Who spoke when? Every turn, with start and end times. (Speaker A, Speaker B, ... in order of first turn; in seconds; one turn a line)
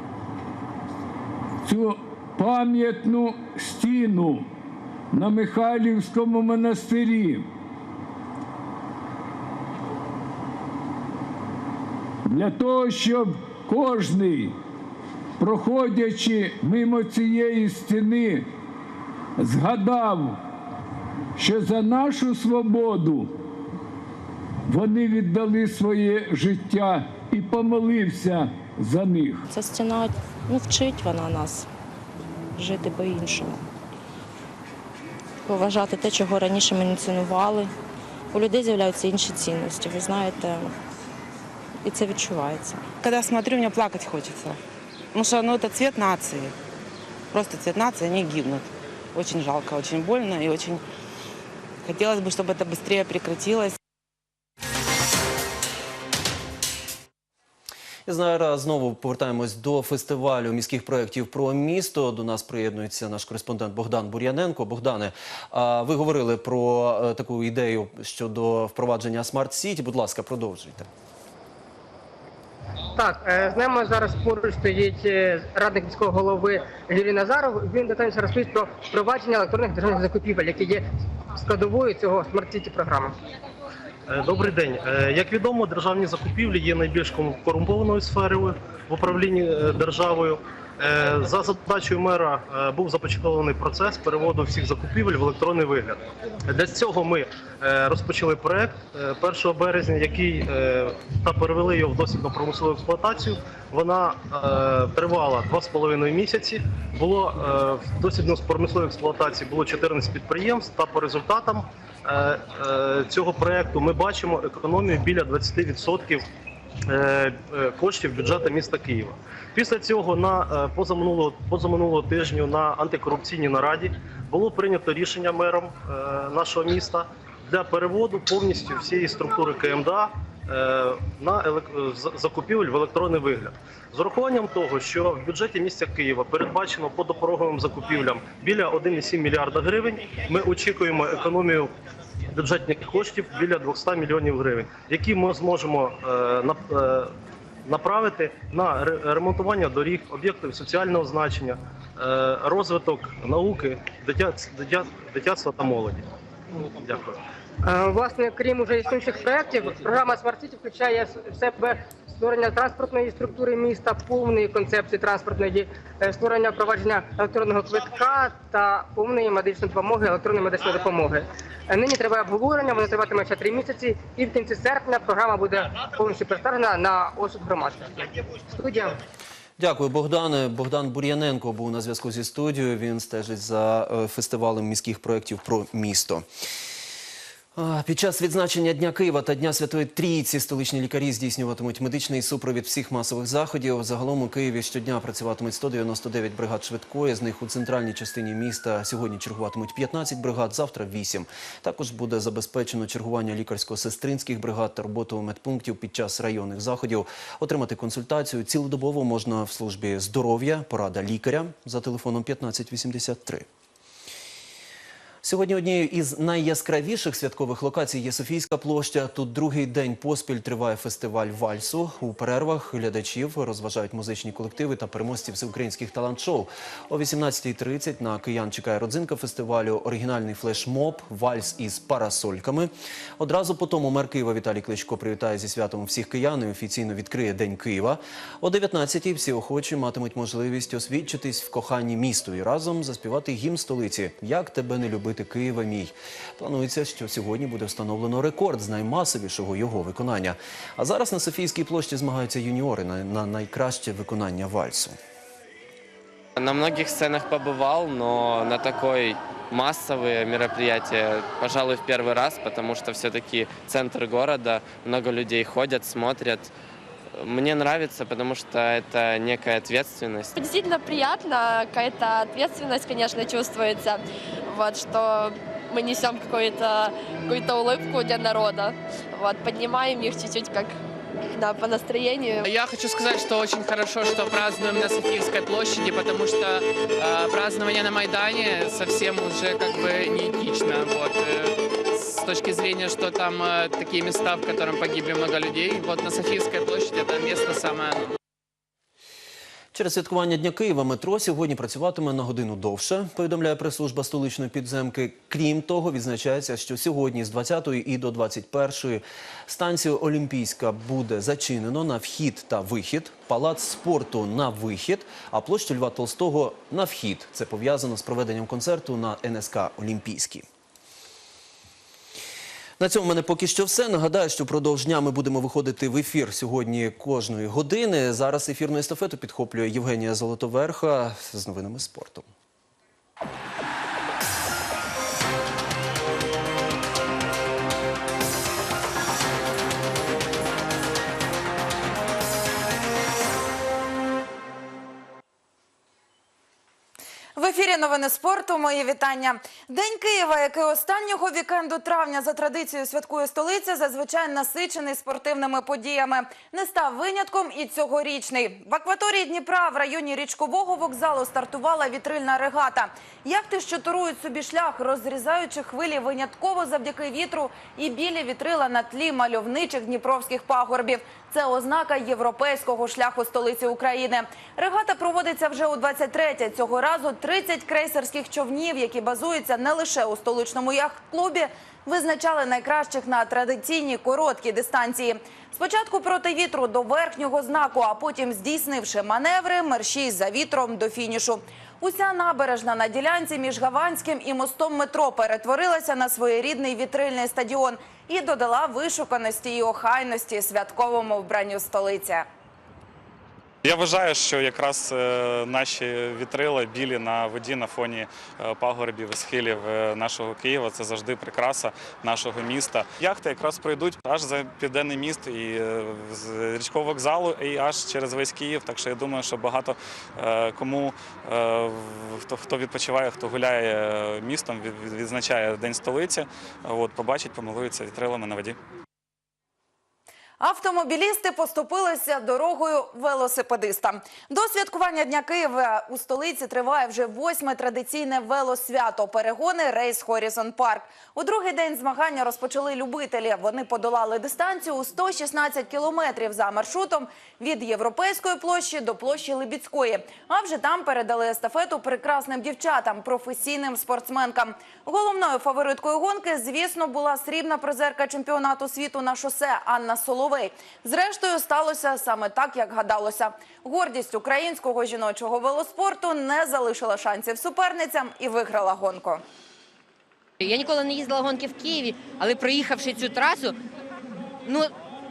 Speaker A: 1.6-4.5
Speaker A: 5.1-7.5
Speaker A: 12.2-14.6
Speaker A: 15.4-18.5
Speaker A: 19.4-20.4
Speaker A: 21.4-23.3
Speaker A: 24.7-29.5
Speaker B: 29.5-31.7
Speaker B: 32.5-33.6
Speaker B: 35.5-37.7
Speaker B: 38.3-40.7
Speaker B: 41.8-42.9
Speaker C: 43.0-44.6
Speaker C: 45.1-46.5
Speaker C: 47.3-50.8
Speaker C: 51.8-53.8
Speaker D: 58.0-70.9
Speaker E: 72.9-80.8
Speaker E: 81.4-83.1
Speaker F: 84.1-116.2
Speaker F: 116.9-141.7
Speaker F: 142.3-147.1
Speaker F: 147.6-156.0
Speaker F: 156.7-157.2
Speaker E: 157.6-179.0
Speaker D: 179.6-186.2
Speaker D: 187.6-213.4
Speaker D: 215.2-255.0
Speaker G: 256.4-266.5
Speaker G: 267.2-270.3
Speaker H: 270.4-273.9
Speaker H: 274.5-276.8
Speaker B: 276.5-276.8
Speaker H: 277.3-280.7
Speaker H: 281.4-282.4
Speaker I: 282.5-298.1
Speaker D: 299.7-320.4
Speaker D: 322.8-332.3
Speaker J: 347.4-402.2
Speaker K: 403.6-428.6
Speaker J: 430.4-469.2
Speaker L: 470.4-473.4
Speaker G: 471.2-472.0
Speaker G: 472.8-473.5